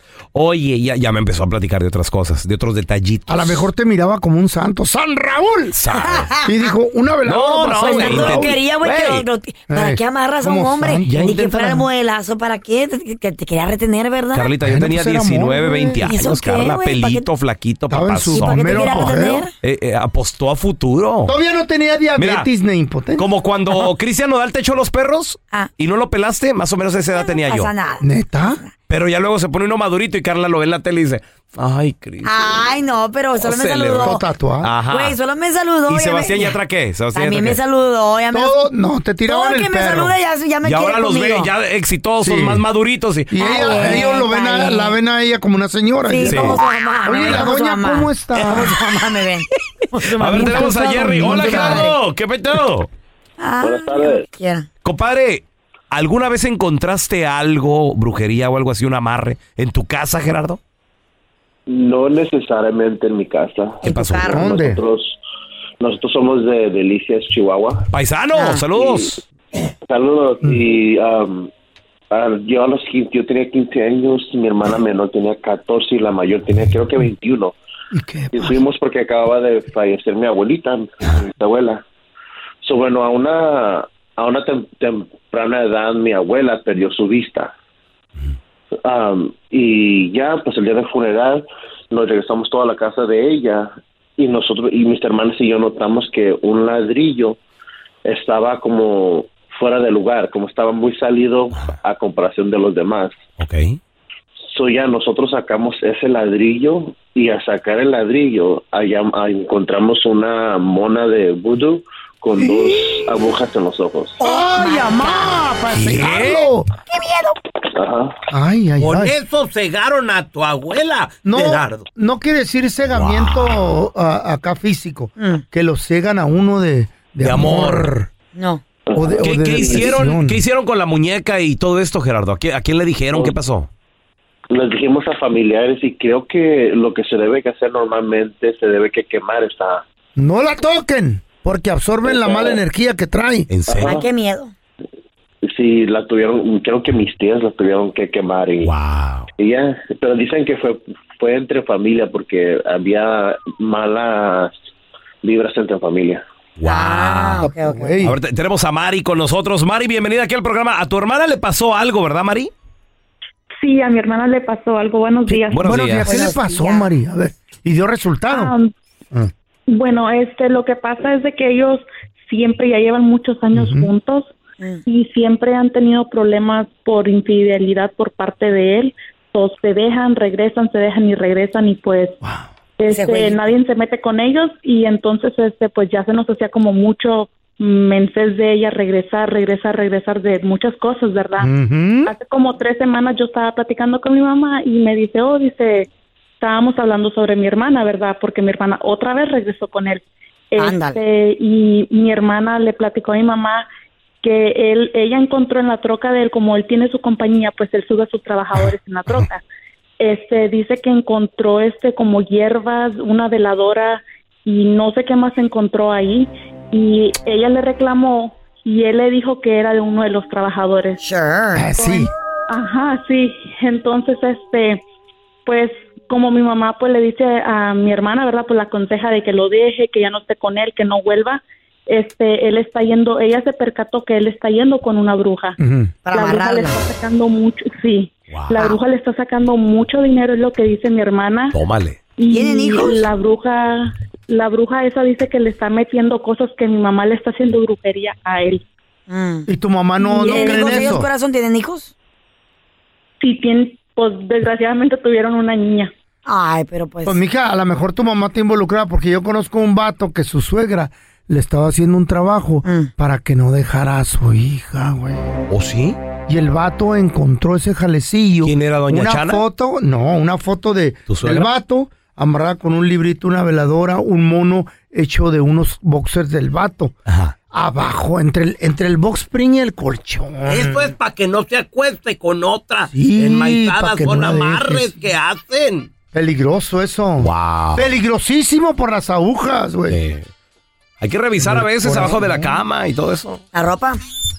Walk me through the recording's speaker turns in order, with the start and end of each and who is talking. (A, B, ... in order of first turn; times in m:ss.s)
0:00.3-0:03.6 A
0:03.3-0:05.8 B
0:05.7-0:06.4 A
0:05.9-0:06.5 C
0:06.4-0:08.6 B
0:07.2-0:09.2 A
0:07.8-0:14.5 C
0:09.7-0:11.2 B
0:11.1-0:11.9 A
0:14.3-0:21.3 A
0:14.6-0:16.1 B
0:16.0-0:17.3 C
0:17.9-0:19.5 B
0:18.3-0:19.5 C
0:21.2-0:23.3 B
0:22.2-0:22.5 A
0:23.2-0:27.7 A
0:27.1-0:28.7 C
0:28.0-0:28.6 B
0:28.9-0:32.7 A
0:32.2-0:34.2 C
0:33.4-0:35.2 A
0:34.0-0:34.7 B
0:34.9-0:36.6 C
0:35.9-0:37.6 A
0:37.1-0:38.6 C
0:38.3-0:40.1 B
0:39.3-0:41.5 C
0:40.6-0:44.2 A
0:42.2-0:42.6 B
0:43.3-0:48.9 B
0:43.4-0:44.9 C
0:46.1-0:52.0 C
0:46.2-0:46.6 A
0:50.0-0:52.9 A
0:50.2-0:51.9 B
0:53.4-0:54.7 C
0:53.6-0:54.2 D
0:54.8-1:00.6 A
1:01.7-1:05.2 D
1:03.8-1:04.4 A
1:03.8-1:04.5 C
1:04.3-1:04.8 B
1:05.8-1:07.9 D
1:07.9-1:09.2 A
1:08.3-1:08.6 C
1:08.7-1:09.2 D
1:09.9-1:11.5 D
1:12.1-1:17.5 D
1:17.9-1:18.6 B
1:18.3-1:21.8 D
1:22.6-1:27.5 D
1:28.8-1:37.4 D
1:38.0-1:43.2 D
1:43.4-1:43.8 A
1:44.5-1:54.2 D
1:52.4-1:53.0 B
1:54.2-1:56.7 B
1:54.2-1:55.4 C
1:55.7-1:56.5 A
1:56.9-1:57.4 C
1:57.7-1:58.2 D
1:58.3-1:59.2 B
1:58.8-2:01.8 E
2:01.2-2:08.1 B
2:02.9-2:03.8 A
2:05.2-2:05.4 C
2:07.2-2:07.9 A
2:08.3-2:08.6 C
2:08.9-2:09.9 D
2:09.0-2:10.4 B
2:09.2-2:13.7 A
2:14.5-2:19.8 D
2:20.2-2:23.5 B
2:22.0-2:22.6 D
2:23.5-2:24.0 A
2:23.7-2:24.1 D
2:23.8-2:24.5 C
2:25.4-2:28.7 D
2:28.6-2:29.3 A
2:29.4-2:34.6 D
2:35.2-2:36.2 D
2:36.6-2:37.5 A
2:36.6-2:38.0 C
2:37.4-2:38.2 B
2:38.0-2:42.5 A
2:43.6-2:45.8 F
2:45.3-2:48.6 B
2:45.5-2:46.1 A
2:46.0-2:46.9 C
2:48.3-2:48.7 F
2:49.7-2:54.3 F
2:53.5-2:53.9 B
2:54.9-3:02.2 F
3:02.8-3:11.5 F
3:02.8-3:03.6 C
3:11.4-3:12.1 B
3:12.0-3:15.9 F
3:16.4-3:23.6 F
3:20.6-3:21.0 C
3:24.2-3:29.4 F
3:30.0-3:41.0 F
3:41.0-3:41.7 C
3:41.5-3:42.1 B
3:41.8-3:44.8 F
3:45.4-3:55.6 F
3:55.6-3:55.9 B
3:56.0-3:56.8 C
3:56.1-4:01.6 F
3:58.3-3:58.6 A
4:01.5-4:02.0 A
4:02.2-4:08.6 F
4:02.3-4:03.0 C
4:09.1-4:09.5 C
4:09.5-4:11.1 B
4:10.0-4:11.9 C
4:10.2-4:11.0 F
4:13.2-4:15.9 F
4:16.2-4:17.2 C
4:17.0-4:25.2 B
4:22.6-4:22.9 C
4:25.5-4:26.0 A
4:26.3-4:36.9 B
4:28.4-4:29.4 A
4:31.1-4:31.5 A
4:37.1-4:37.3 A
4:37.5-4:40.9 B
4:40.5-4:45.9 E
4:42.9-4:45.0 B
4:46.1-4:50.0 B
4:47.2-4:47.8 A
4:49.9-4:50.3 A
4:51.0-4:53.4 A
4:51.4-4:52.6 B
4:53.5-4:54.0 C